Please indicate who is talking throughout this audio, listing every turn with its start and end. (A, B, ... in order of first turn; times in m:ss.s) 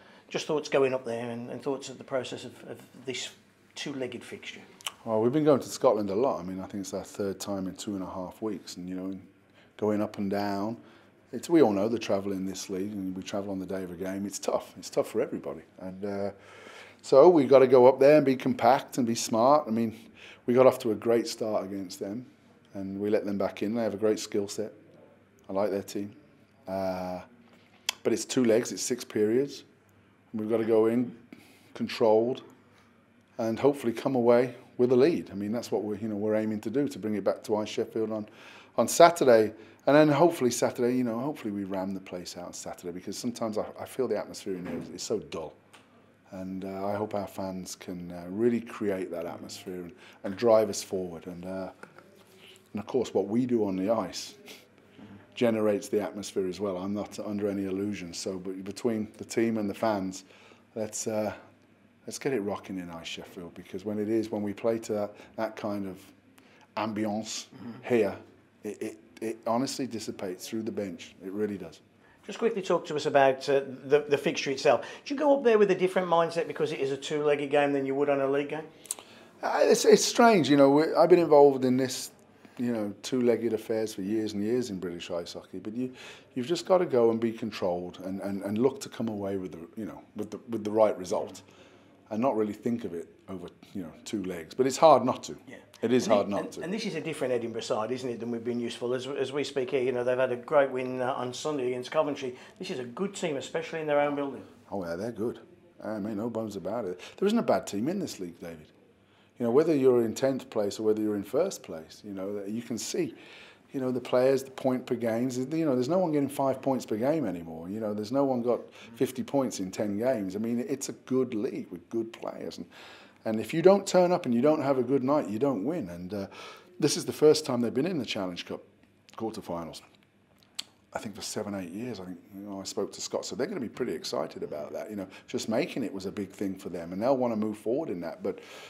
0:00.3-0:04.6 A
0:05.0-0:09.2 B
0:09.8-0:10.8 B
0:11.3-0:16.3 B
0:17.0-0:24.7 B
0:25.5-0:26.1 B
0:26.7-0:27.2 B
0:28.0-0:29.7 B
0:30.3-0:31.2 B
0:31.7-0:32.4 B
0:33.4-0:45.6 B
0:46.3-0:51.7 B
0:52.7-0:54.4 B
0:55.4-1:01.4 B
1:02.1-1:06.1 B
1:06.8-1:11.8 B
1:12.2-1:18.7 A
1:19.4-1:31.4 B
1:32.1-1:36.7 B
1:35.5-1:44.5 A
1:44.7-1:48.7 B
1:49.4-1:53.2 B
1:53.7-2:02.7 B
2:03.2-2:09.8 B
2:10.9-2:18.4 B